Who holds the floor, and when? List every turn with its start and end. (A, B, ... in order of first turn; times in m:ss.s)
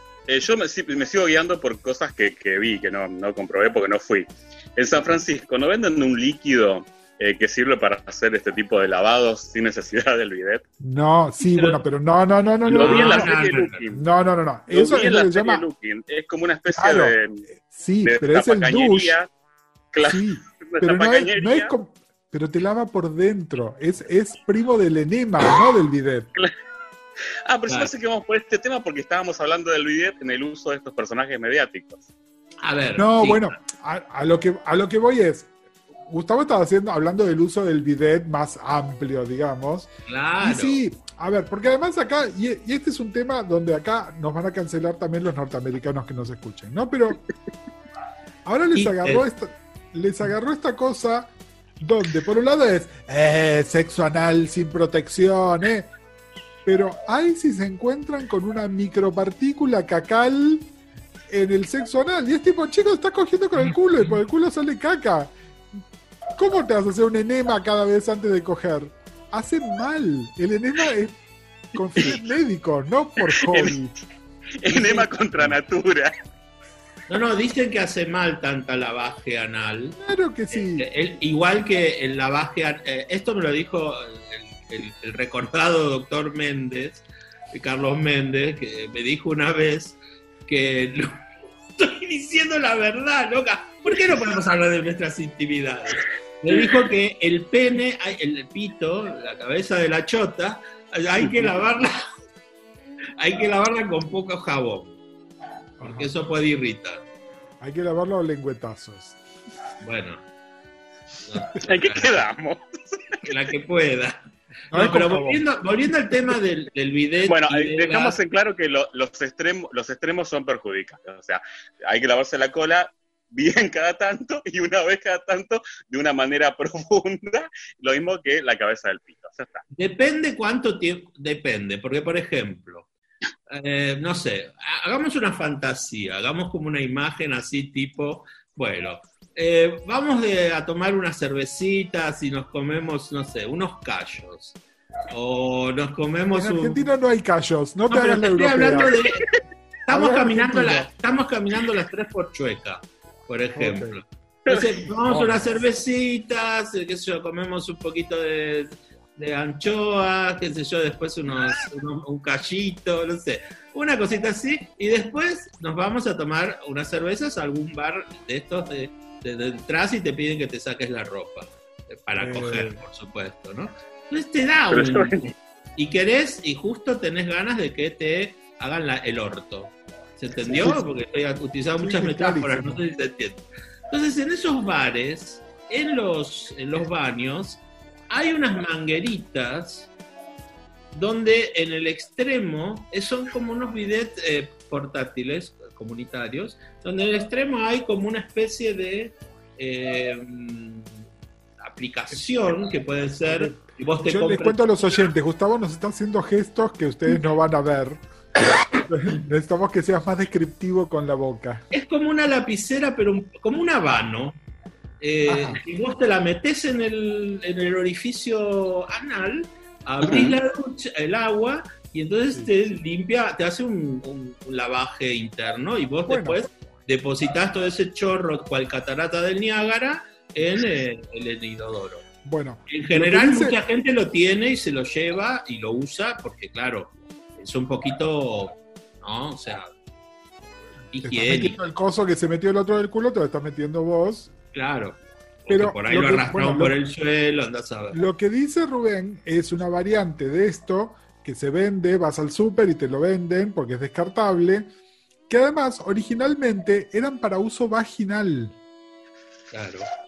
0:00.3-0:10.6 A
0:10.8-0:13.3 B
0:11.4-0:11.8 C
0:12.7-0:13.8 C
0:12.7-0:14.0 A
0:13.9-0:15.6 B
0:14.7-0:17.4 A
0:16.7-0:19.2 B
0:18.0-0:19.3 A
0:19.9-0:21.7 A
0:20.0-0:26.3 B
0:27.4-0:32.0 A
0:32.6-0:33.5 C
0:33.0-0:35.5 B
0:36.1-0:47.2 B
0:40.1-0:40.8 C
0:48.4-0:55.9 B
0:48.7-0:49.2 C
0:56.6-1:00.7 B
1:01.3-1:05.8 B
1:06.4-1:11.2 B
1:11.7-1:13.9 B
1:13.2-1:13.8 A
1:14.6-1:16.1 A
1:14.8-1:15.0 C
1:17.1-1:20.0 C
1:20.0-1:20.9 B
1:20.5-1:31.2 C
1:31.7-1:42.0 C
1:43.2-1:45.0 C
1:45.8-1:46.1 B
1:45.8-1:47.0 C
1:47.6-1:49.2 B
1:49.8-1:50.2 C
1:51.2-1:52.2 C
1:51.6-1:53.2 A
1:53.2-1:54.2 C
1:54.7-1:55.4 B
1:54.7-1:58.2 C
1:57.3-2:09.6 A
2:09.7-2:12.9 C
2:13.5-2:24.6 C
2:25.1-2:26.9 C
2:26.3-2:29.0 B
2:27.9-2:29.2 C
2:29.9-3:09.9 C
2:29.9-2:30.9 B
2:33.6-2:34.0 B
2:34.5-2:34.7 A
2:35.0-2:35.5 B
2:52.2-2:52.8 B
2:54.7-2:55.3 A
3:00.4-3:00.8 B
3:01.8-3:02.8 B
3:10.9-3:21.0 C
3:21.6-3:25.0 C
3:23.3-3:28.0 B
3:28.7-3:31.6 B
3:31.7-3:34.3 C
3:35.0-3:52.1 C
3:35.2-3:35.6 B
3:40.0-3:40.3 B
3:46.1-3:46.4 B
3:52.2-3:53.6 B
3:52.7-3:59.7 C
4:00.9-4:01.6 C
4:01.0-4:04.3 B
4:04.5-4:08.0 C
4:05.5-4:06.8 B
4:07.9-4:14.7 B
4:15.3-4:18.6 B
4:19.5-4:19.9 C